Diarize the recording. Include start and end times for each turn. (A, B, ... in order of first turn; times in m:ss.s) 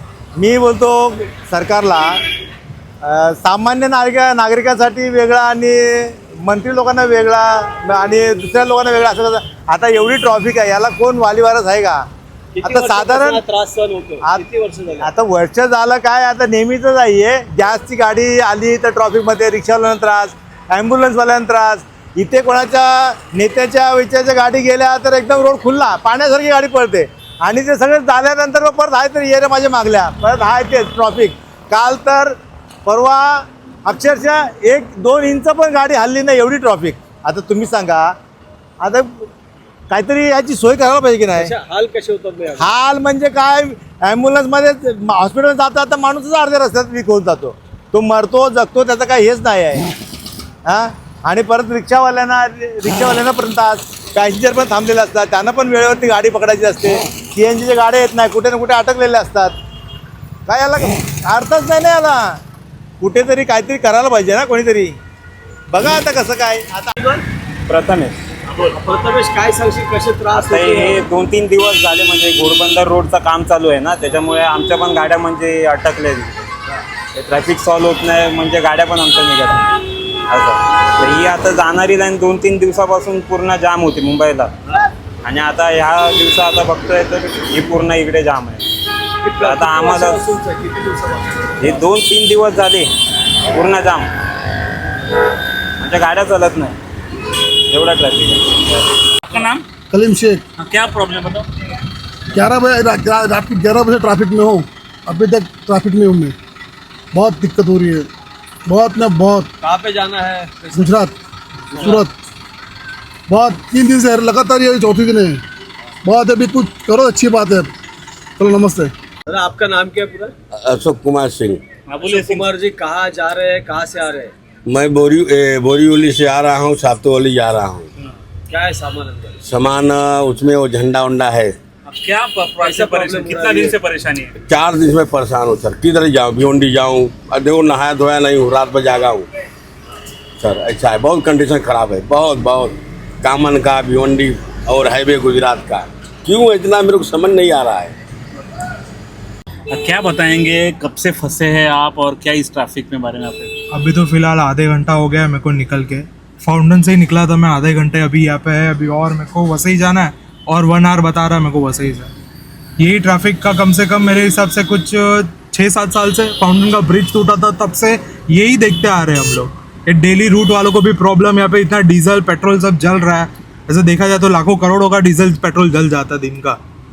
0:00.4-0:02.1 A
0:03.0-0:12.0 A
0:12.5-0:15.1 B
0:12.6-0:13.4 A
0:15.0-0:32.3 A
0:32.8-0:38.1 A
0:38.8-0:39.3 A
0:39.9-0:41.6 A
0:41.3-0:42.7 B
0:42.6-0:49.8 A
0:50.7-0:59.5 A
1:00.5-1:02.2 A
1:03.0-1:04.9 A
1:05.7-1:07.1 A
1:07.7-1:08.2 C
1:08.5-1:11.0 B
1:10.3-1:16.5 C
1:17.1-1:19.7 C
1:20.3-1:24.5 C
1:25.2-1:28.6 C
1:29.2-1:31.7 B
1:29.4-1:30.3 C
1:31.6-1:32.9 C
1:33.5-1:34.1 C
1:35.8-1:36.8 C
1:37.7-1:38.8 C
1:39.3-1:39.6 D
1:39.9-1:40.4 E
1:40.6-1:41.4 D
1:42.3-1:46.4 E
1:47.1-1:48.1 E
1:48.6-1:49.5 E
1:49.6-1:51.0 B
1:50.8-1:51.2 E
1:51.7-1:52.0 B
1:51.9-1:52.1 E
1:53.3-1:55.4 E
1:56.0-1:57.7 E
1:58.4-1:58.9 E
1:59.3-2:00.3 B
2:00.6-2:01.6 F
2:01.9-2:02.5 D
2:02.0-2:04.3 B
2:04.7-2:07.9 F
2:08.5-2:09.4 B
2:09.4-2:11.5 F
2:11.8-2:14.3 D
2:12.6-2:13.8 B
2:14.4-2:19.3 F
2:20.4-2:27.9 F
2:29.7-2:33.5 D
2:33.7-2:42.1 G
2:42.8-2:56.6 G